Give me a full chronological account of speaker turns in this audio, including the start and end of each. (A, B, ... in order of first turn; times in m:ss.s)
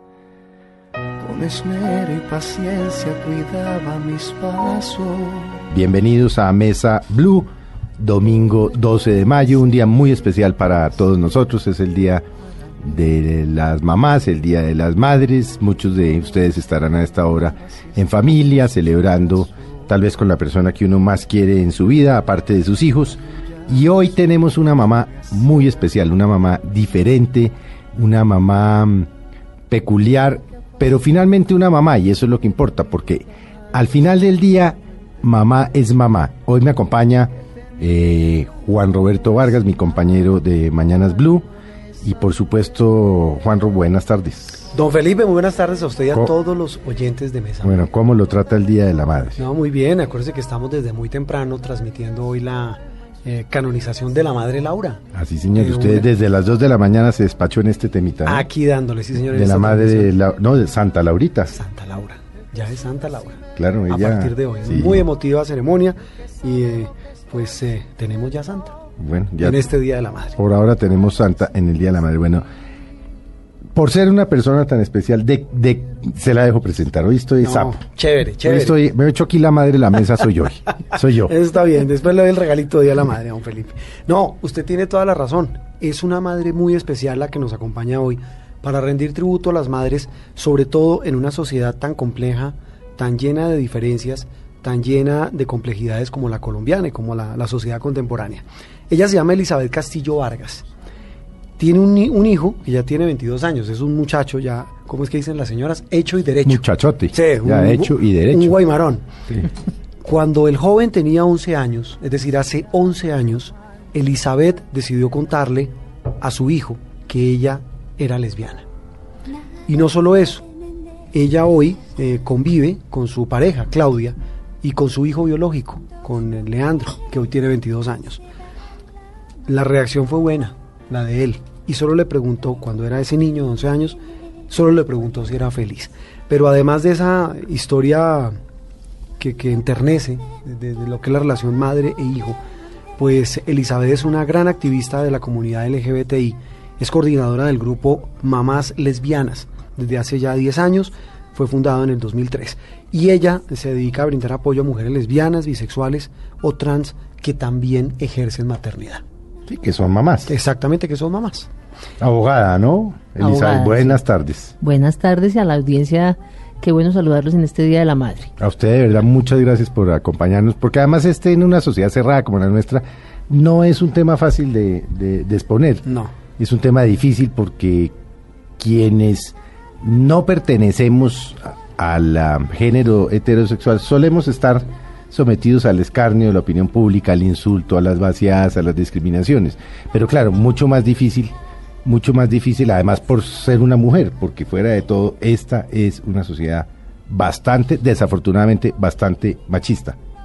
0:01.2-0:05.6 A
0:05.7-0:12.2 B
0:12.8-0:29.1 B
0:29.7-0:41.4 B
0:42.0-0:44.7 B
0:44.7-0:47.8 C
0:47.6-0:49.4 B
0:49.4-0:55.0 C
0:55.1-0:58.5 B
0:55.6-0:56.1 C
0:58.2-1:00.1 C
0:59.3-1:01.5 B
1:01.5-1:08.7 C
1:03.5-1:05.0 B
1:09.0-1:09.6 B
1:09.4-1:10.3 C
1:10.4-1:12.4 B
1:13.7-1:17.8 B
1:17.4-1:18.7 C
1:18.4-1:21.3 B
1:21.3-1:40.6 C
1:41.6-1:49.2 C
1:46.4-1:48.6 B
1:50.0-1:58.6 C
1:59.7-2:00.4 C
2:01.1-2:08.2 C
2:09.5-2:14.0 C
2:14.5-2:18.4 C
2:19.2-2:22.4 C
2:23.0-2:39.0 C
2:39.5-2:40.3 B
2:40.3-2:41.5 C
2:42.0-2:44.5 B
2:43.2-2:44.0 D
2:44.6-2:48.3 D
2:48.4-2:55.8 B
2:55.8-2:56.1 C
2:56.4-2:57.9 B
2:58.6-3:11.3 B
3:11.8-3:20.0 B